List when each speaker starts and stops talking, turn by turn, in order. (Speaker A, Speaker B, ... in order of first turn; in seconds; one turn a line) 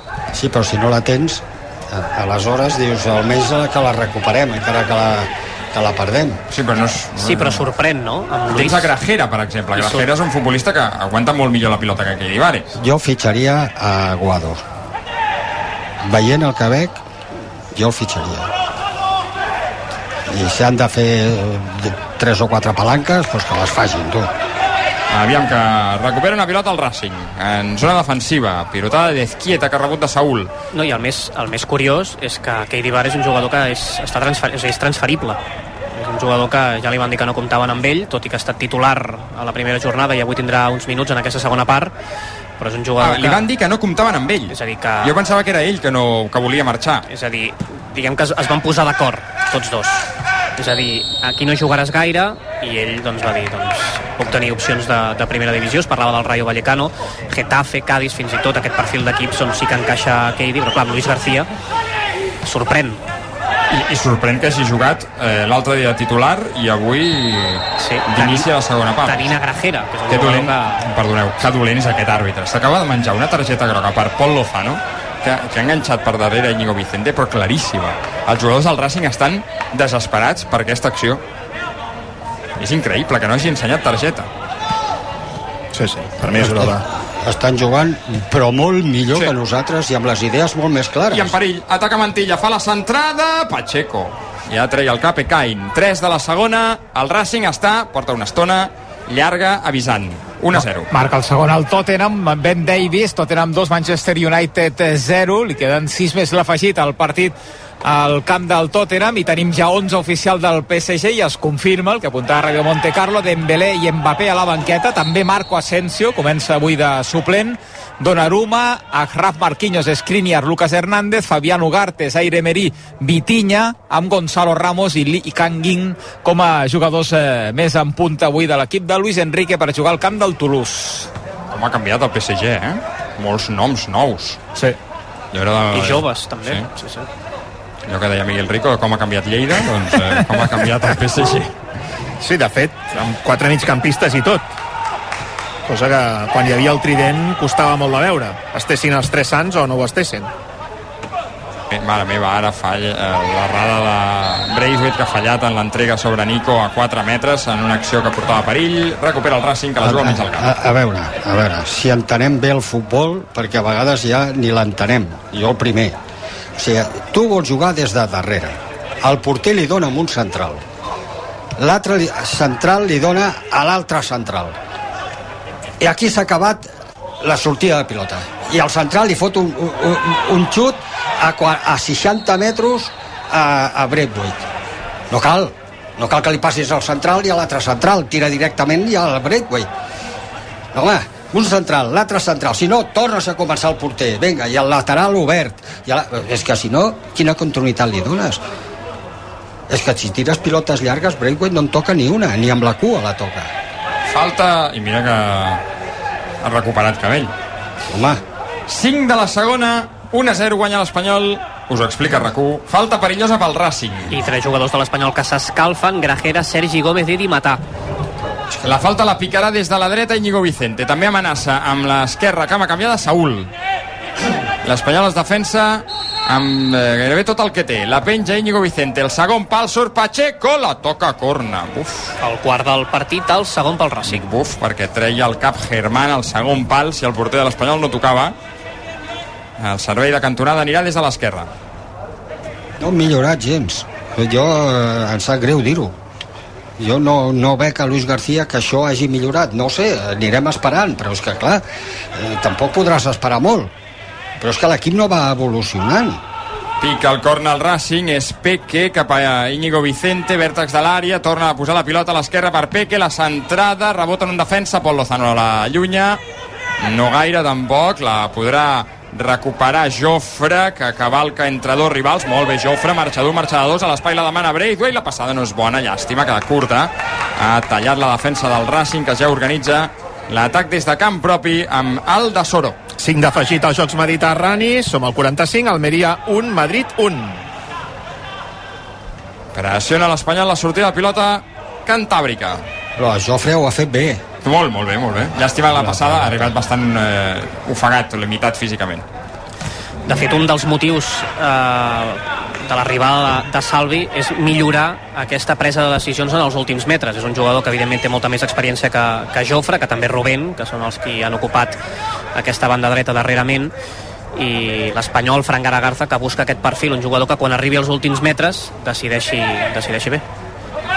Speaker A: 0.3-6.4
Speaker B: 6.5-7.7
Speaker C: 7.2-8.9
Speaker B: 8.5-12.7
Speaker C: 9.8-10.1
Speaker A: 12.8-14.7
Speaker A: 16.0-17.0
Speaker A: 17.7-18.5
Speaker A: 20.3-24.3
Speaker B: 25.1-30.5
Speaker C: 30.7-35.4
Speaker C: 35.9-41.9
Speaker C: 42.6-43.5
Speaker B: 43.0-47.1
Speaker C: 44.5-45.2
Speaker C: 47.1-61.5
Speaker C: 62.4-63.0
Speaker B: 63.7-69.3
Speaker C: 67.8-68.5
Speaker C: 69.1-70.8
Speaker B: 70.1-81.2
Speaker B: 82.6-84.3
Speaker D: 85.7-86.8
Speaker A: 86.4-91.3
Speaker B: 91.1-100.9
Speaker E: 100.9-131.1
Speaker B: 131.5-134.4
Speaker B: 135.3-136.7
Speaker C: 135.7-137.1
Speaker B: 137.9-141.5
Speaker D: 142.2-144.4
Speaker D: 145.7-150.3
Speaker B: 151.7-160.6
Speaker A: 159.8-166.0
Speaker A: 166.6-170.6
Speaker A: 171.6-174.6
Speaker A: 175.8-184.4
Speaker A: 185.1-189.7
Speaker A: 190.7-198.4
Speaker A: 199.7-203.5
Speaker B: 204.1-205.6
Speaker B: 206.4-207.3
Speaker A: 207.9-208.2
Speaker B: 208.7-214.2
Speaker C: 214.1-217.6
Speaker B: 218.5-223.5
Speaker B: 224.6-232.1
Speaker C: 232.2-234.2
Speaker B: 234.1-238.3
Speaker B: 239.6-241.5
Speaker A: 242.8-246.0
Speaker A: 246.8-253.7
Speaker A: 254.4-256.2
Speaker B: 256.8-266.2
Speaker B: 266.8-282.8
Speaker D: 283.0-287.4
Speaker B: 289.5-292.6
Speaker A: 293.0-294.2
Speaker B: 294.4-299.1
Speaker A: 295.9-296.4
Speaker C: 300.1-311.8
Speaker C: 312.3-313.7
Speaker C: 314.4-320.2